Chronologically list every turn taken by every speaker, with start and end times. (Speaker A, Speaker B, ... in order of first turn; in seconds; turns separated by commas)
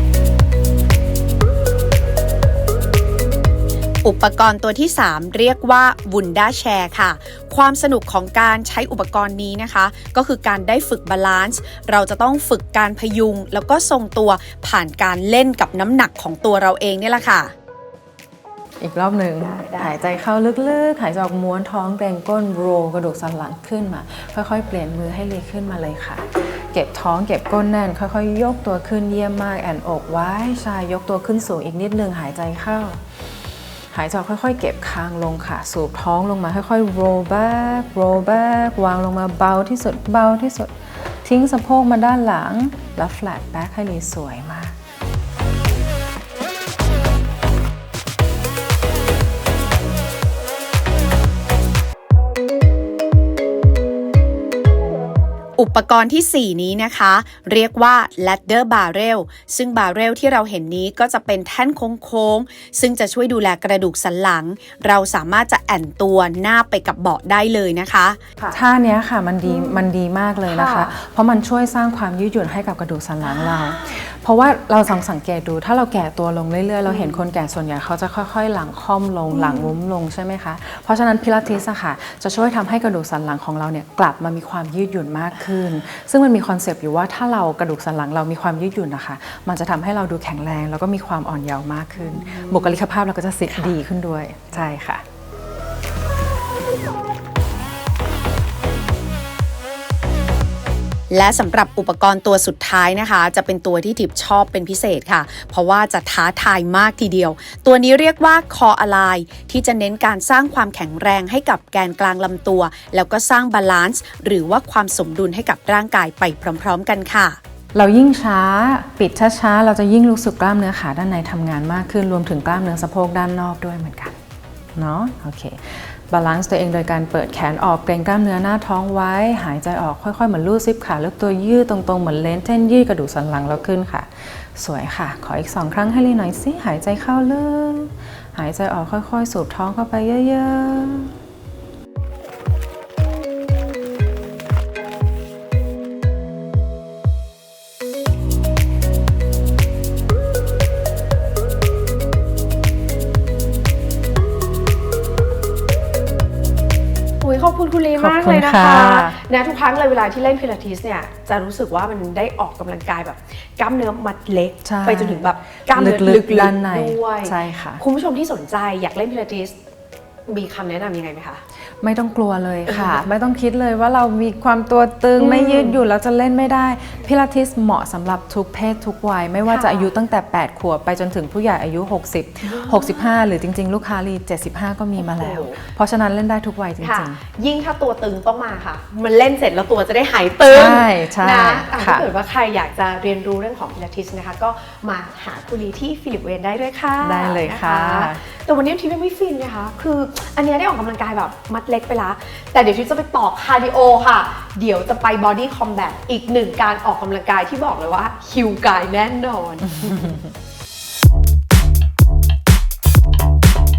Speaker A: 4.0-17.5, Speaker B: 18.8-33.0, Speaker C: 19.4-20.1, Speaker B: 33.9-44.8, Speaker A: 55.6-68.2, Speaker B: 68.5-95.0, Speaker C: 69.5-69.9, Speaker C: 70.5-70.9, Speaker C: 73.2-74.0, Speaker C: 76.9-77.2, Speaker C: 79.3-79.8, Speaker C: 92.0-92.8, Speaker A: 101.1-117.4, Speaker B: 117.7-124.2, Speaker B: 124.8-141.1, Speaker C: 157.2-169.6, Speaker B: 158.0-159.2, Speaker B: 164.6-167.8, Speaker C: 170.3-171.4, Speaker B: 171.8-187.2, Speaker C: 172.7-173.0, Speaker C: 175.2-175.8, Speaker C: 179.5-179.9, Speaker C: 182.4-183.2, Speaker C: 185.0-185.6, Speaker C: 186.8-210.0, Speaker B: 190.5-192.1, Speaker B: 197.0-198.2, Speaker B: 209.7-210.3